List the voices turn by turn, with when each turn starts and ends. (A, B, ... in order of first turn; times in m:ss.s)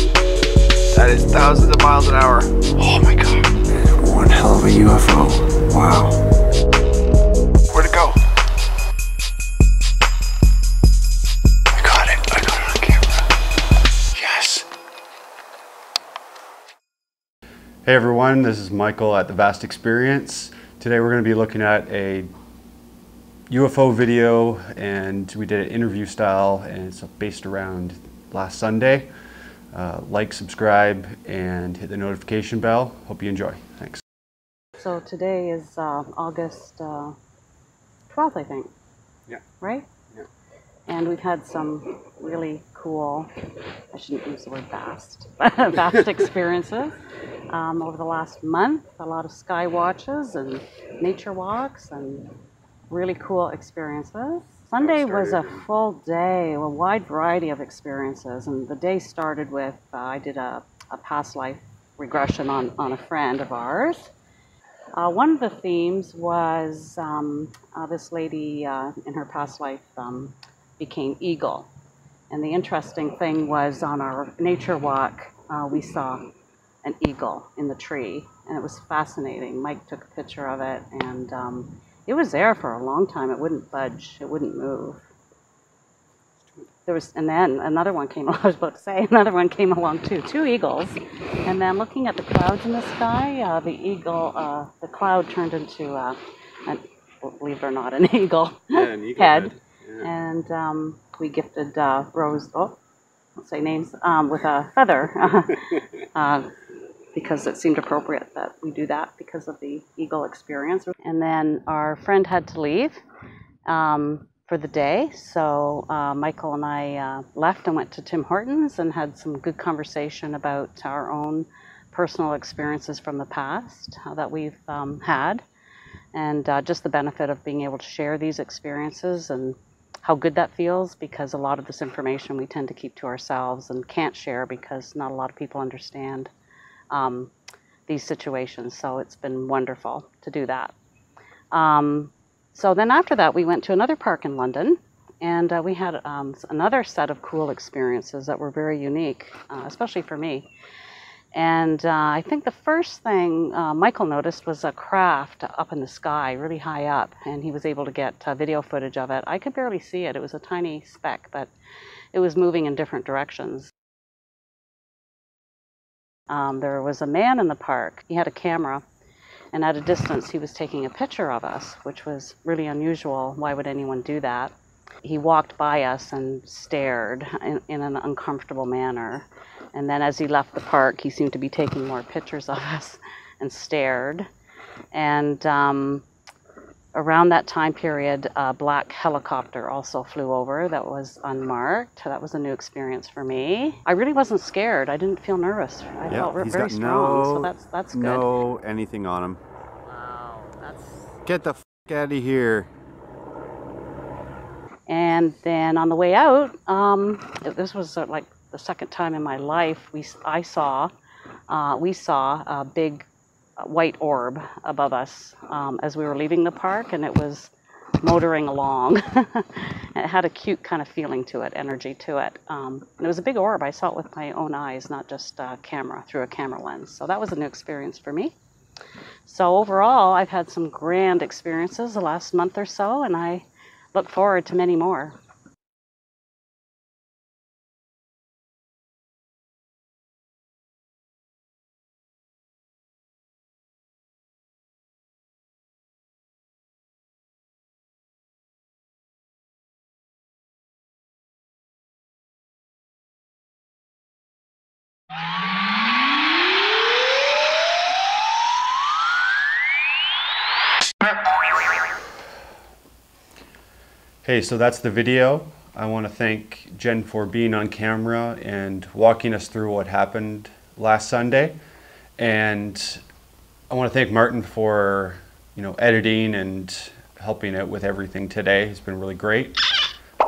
0:00.9-0:03.8 A
0:03.8-0:06.2 B
0:07.7-0:08.2 A
0:11.7-0:13.3 A
0:14.1-0:14.7 A
0:17.8-0:22.3 C
0:23.5-0:29.1 C
0:29.7-0:34.0 C
0:34.8-0:37.2 D
0:38.1-0:38.7 D
0:39.6-0:39.9 D
0:40.9-0:43.3 D
0:43.9-0:52.4 D
0:52.9-1:04.1 D
0:55.0-0:55.5 A
1:05.0-1:11.7 D
1:12.3-1:16.2 D
1:16.8-1:25.0 D
1:26.8-1:42.8 D
1:43.4-1:46.5 D
1:47.1-1:53.0 D
1:53.7-2:05.4 D
2:06.1-2:16.3 D
2:16.9-2:17.3 D
2:17.9-2:20.7 D
2:21.5-2:30.5 D
2:31.3-2:41.5 D
2:42.1-2:43.7 D
2:46.3-2:48.8 D
2:49.5-3:04.3 D
3:04.9-3:06.0 D
3:06.9-3:18.3 D
3:16.1-3:19.4 C
3:20.0-3:20.9 D
3:21.2-3:22.7 C
3:24.9-3:30.9 D
3:31.5-3:33.1 D
3:33.6-3:48.4 D
3:49.2-3:55.2 D
4:24.2-4:31.6 C
4:32.2-4:33.0 C
4:33.7-4:39.6 C